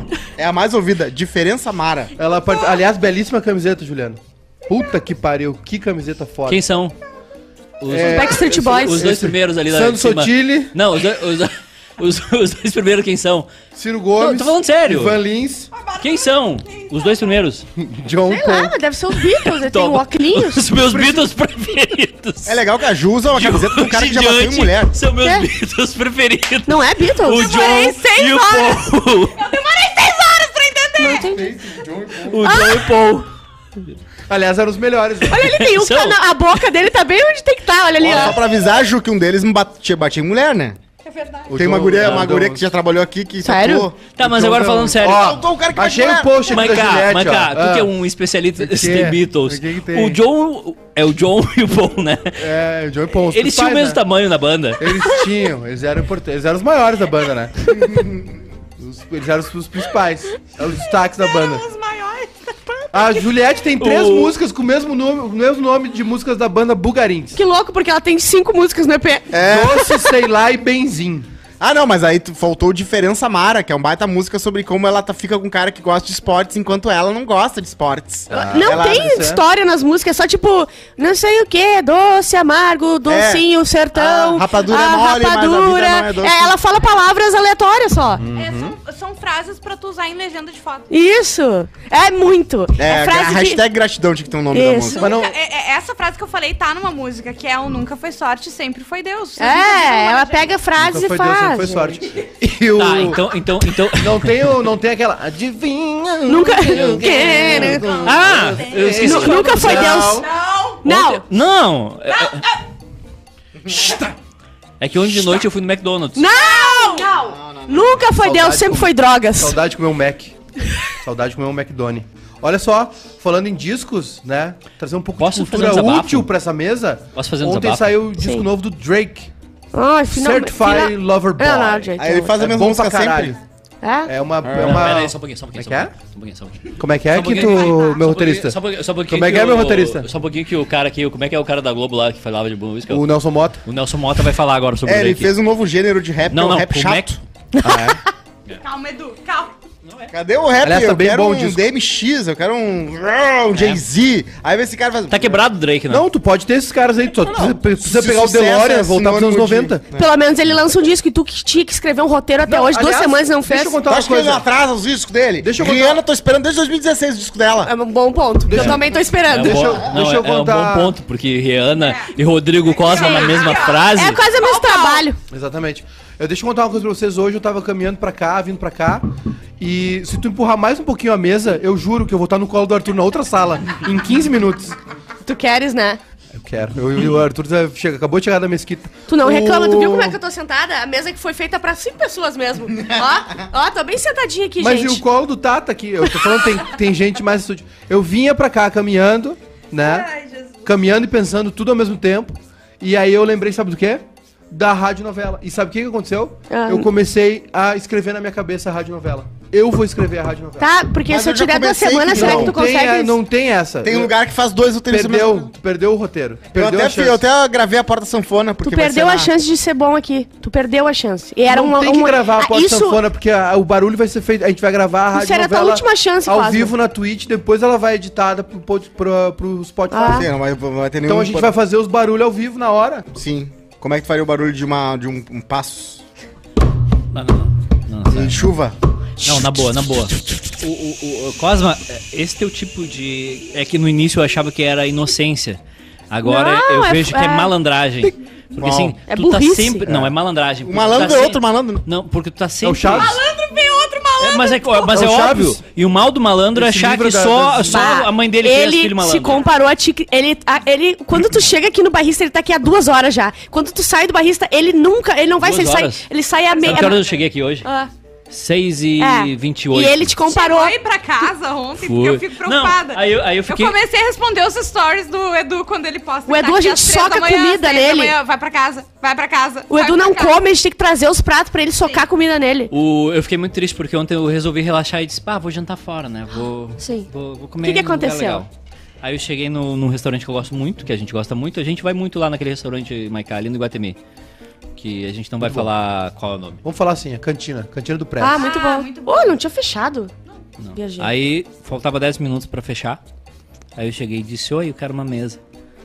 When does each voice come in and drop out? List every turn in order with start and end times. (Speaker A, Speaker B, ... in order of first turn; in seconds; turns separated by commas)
Speaker A: 0.4-2.1, Speaker B: 2.2-6.6, Speaker C: 6.5-7.0, Speaker C: 7.8-13.5, Speaker B: 7.9-10.7, Speaker D: 8.0-9.1, Speaker B: 13.8-15.7, Speaker C: 14.2-15.2, Speaker E: 15.7-17.3, Speaker C: 16.0-17.7, Speaker B: 17.8-18.8, Speaker D: 18.3-20.7, Speaker C: 19.3-22.6, Speaker B: 20.8-21.2, Speaker A: 22.5-24.9, Speaker C: 23.3-29.4, Speaker D: 25.2-25.5, Speaker D: 26.7-28.2, Speaker E: 27.3-31.4, Speaker D: 31.0-31.5, Speaker B: 31.1-32.6, Speaker C: 32.2-33.3, Speaker D: 32.4-33.0, Speaker B: 34.3-35.5, Speaker D: 35.3-38.4, Speaker C: 35.4-36.2, Speaker A: 38.0-40.8, Speaker E: 41.0-41.5, Speaker B: 41.5-42.6, Speaker A: 41.5-44.0, Speaker D: 43.4-43.9, Speaker C: 44.1-45.4, Speaker B: 44.2-47.9, Speaker A: 45.0-46.6, Speaker C: 46.5-52.5, Speaker B: 48.6-50.2, Speaker B: 52.4-54.0, Speaker C: 53.3-55.0, Speaker B: 54.8-57.8, Speaker A: 57.7-58.4, Speaker B: 58.8-61.7, Speaker E: 61.2-63.2, Speaker B: 62.9-67.4, Speaker C: 63.8-64.4, Speaker D: 67.3-69.3, Speaker A: 69.3-69.9, Speaker B: 69.3-71.3, Speaker A: 71.6-79.2, Speaker B: 78.3-79.4, Speaker D: 78.3-88.2, Speaker A: 83.1-86.5, Speaker B: 88.2-88.8, Speaker E: 88.3-90.9, Speaker D: 90.9-93.6, Speaker A: 92.8-95.1, Speaker D: 94.5-95.0, Speaker E: 94.9-100.5, Speaker B: 95.0-95.4, Speaker D: 99.4-102.0, Speaker B: 100.8-103.2, Speaker C: 102.8-104.3, Speaker B: 104.0-110.3, Speaker D: 106.3-107.9, Speaker A: 106.8-108.1, Speaker E: 107.2-110.8, Speaker C: 108.0-110.0, Speaker D: 109.0-110.3, Speaker D: 110.8-111.2, Speaker C: 110.8-112.5, Speaker E: 112.2-112.5, Speaker A: 113.6-114.1, Speaker C: 114.8-116.3, Speaker D: 116.2-119.6, Speaker E: 116.3-117.3, Speaker A: 117.2-118.0, Speaker B: 118.2-120.3, Speaker B: 121.0-129.3, Speaker C: 125.2-126.3, Speaker C: 127.2-128.0, Speaker D: 128.2-128.5, Speaker D: 129.7-132.4, Speaker B: 130.1-133.4, Speaker A: 132.0-133.4, Speaker D: 133.8-134.1, Speaker B: 134.1-135.9, Speaker A: 134.4-134.9, Speaker C: 134.5-143.1, Speaker B: 136.8-138.6, Speaker B: 139.1-140.1, Speaker B: 142.9-143.6, Speaker C: 143.7-145.3, Speaker A: 144.8-147.2, Speaker C: 146.3-147.2, Speaker D: 147.5-147.9, Speaker B: 147.6-148.0, Speaker E: 148.5-149.6, Speaker C: 149.9-150.1, Speaker A: 150.1-155.4, Speaker B: 150.6-151.6, Speaker C: 153.6-153.8, Speaker C: 155.1-156.1, Speaker B: 155.9-159.8, Speaker A: 157.2-160.1, Speaker D: 159.9-163.8, Speaker B: 162.5-164.4, Speaker A: 163.9-167.7, Speaker B: 165.4-166.0, Speaker D: 167.7-169.8, Speaker B: 168.5-170.9, Speaker C: 168.5-174.2, Speaker E: 171.8-172.1, Speaker E: 172.8-175.1, Speaker D: 173.0-175.2, Speaker B: 175.3-184.8, Speaker D: 185.2-186.0, Speaker B: 186.4-190.2, Speaker D: 189.1-195.0, Speaker B: 194.6-200.1, Speaker E: 199.8-200.7, Speaker B: 200.7-210.7, Speaker D: 206.5-206.9, Speaker D: 210.6-213.2, Speaker A: 211.1-212.6, Speaker B: 212.1-214.1, Speaker A: 213.8-215.5, Speaker B: 214.9-217.2, Speaker A: 216.5-219.3, Speaker D: 218.6-223.0, Speaker B: 221.5-230.3, Speaker D: 225.1-226.7, Speaker D: 229.9-230.3, Speaker A: 230.1-231.6, Speaker B: 231.1-233.1, Speaker A: 233.1-236.0, Speaker C: 237.1-238.5, Speaker A: 238.1-238.8, Speaker C: 239.2-245.6, Speaker C: 246.1-253.2, Speaker D: 246.2-247.5, Speaker D: 249.1-249.9, Speaker A: 250.7-251.8, Speaker B: 252.6-253.2, Speaker E: 252.9-254.9, Speaker C: 254.2-259.4, Speaker B: 254.9-255.6, Speaker B: 256.5-257.9, Speaker D: 257.7-267.1, Speaker E: 259.2-259.5, Speaker C: 265.4-266.1, Speaker E: 266.5-267.2, Speaker C: 266.6-267.7, Speaker D: 267.6-267.9, Speaker C: 268.3-270.1, Speaker D: 269.0-270.8, Speaker E: 270.2-280.4, Speaker C: 271.8-273.8, Speaker D: 276.3-278.2, Speaker D: 279.7-282.7, Speaker C: 282.7-288.5, Speaker D: 286.8-287.1, Speaker D: 287.6-288.4, Speaker C: 289.0-294.0, Speaker C: 294.8-296.6, Speaker B: 295.4-295.7, Speaker B: 296.6-298.4, Speaker D: 298.2-300.1, Speaker E: 298.3-299.4, Speaker C: 300.6-303.0, Speaker D: 300.8-301.1, Speaker C: 303.8-305.4